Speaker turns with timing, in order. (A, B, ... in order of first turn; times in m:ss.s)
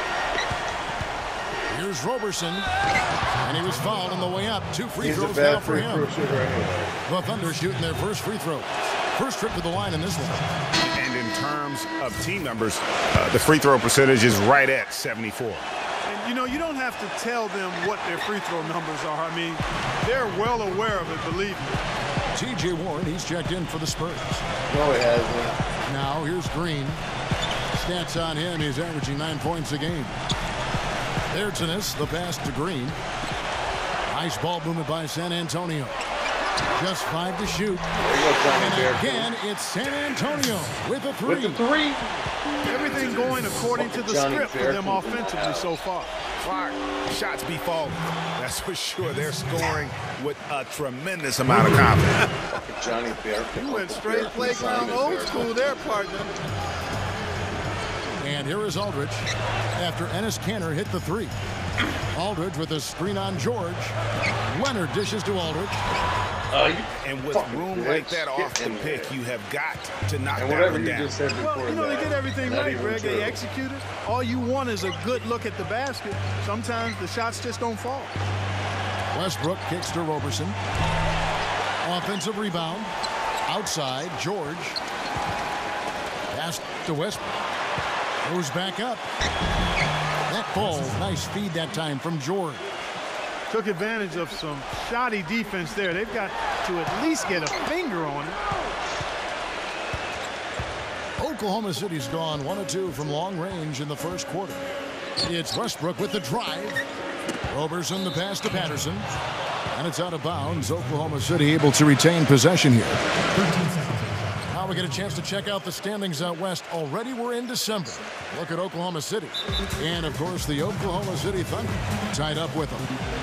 0:01.7-0:02.7 A
0:03.4-0:06.1 A
0:05.0-0:07.0 B
0:07.0-0:10.5 A
0:10.8-0:15.6 C
0:16.0-0:21.8 D
0:22.3-0:24.4 A
0:24.7-0:25.6 B
0:25.8-0:27.0 A
0:27.7-0:30.2 A
0:31.3-0:33.0 A
0:34.1-0:36.0 A
0:36.7-0:37.9 A
0:38.0-0:39.3 B
0:38.5-0:41.6 A
0:41.2-0:42.1 B
0:42.6-0:46.1 D
0:43.6-0:45.7 B
0:46.4-0:52.2 C
0:52.5-0:55.8 B
0:53.6-0:56.3 D
0:58.2-1:01.3 A
1:02.1-1:05.8 A
1:06.5-1:09.2 B
1:07.0-1:11.2 C
1:10.3-1:13.4 B
1:11.4-1:18.1 D
1:19.1-1:20.6 A
1:21.8-1:22.9 A
1:23.5-1:24.8 A
1:26.3-1:27.4 A
1:28.2-1:29.0 A
1:30.3-1:32.6 A
1:33.5-1:38.4 D
1:41.2-1:44.6 A
1:45.2-1:46.8 A
1:47.5-1:49.1 A
1:49.7-1:53.0 A
1:54.5-2:02.9 A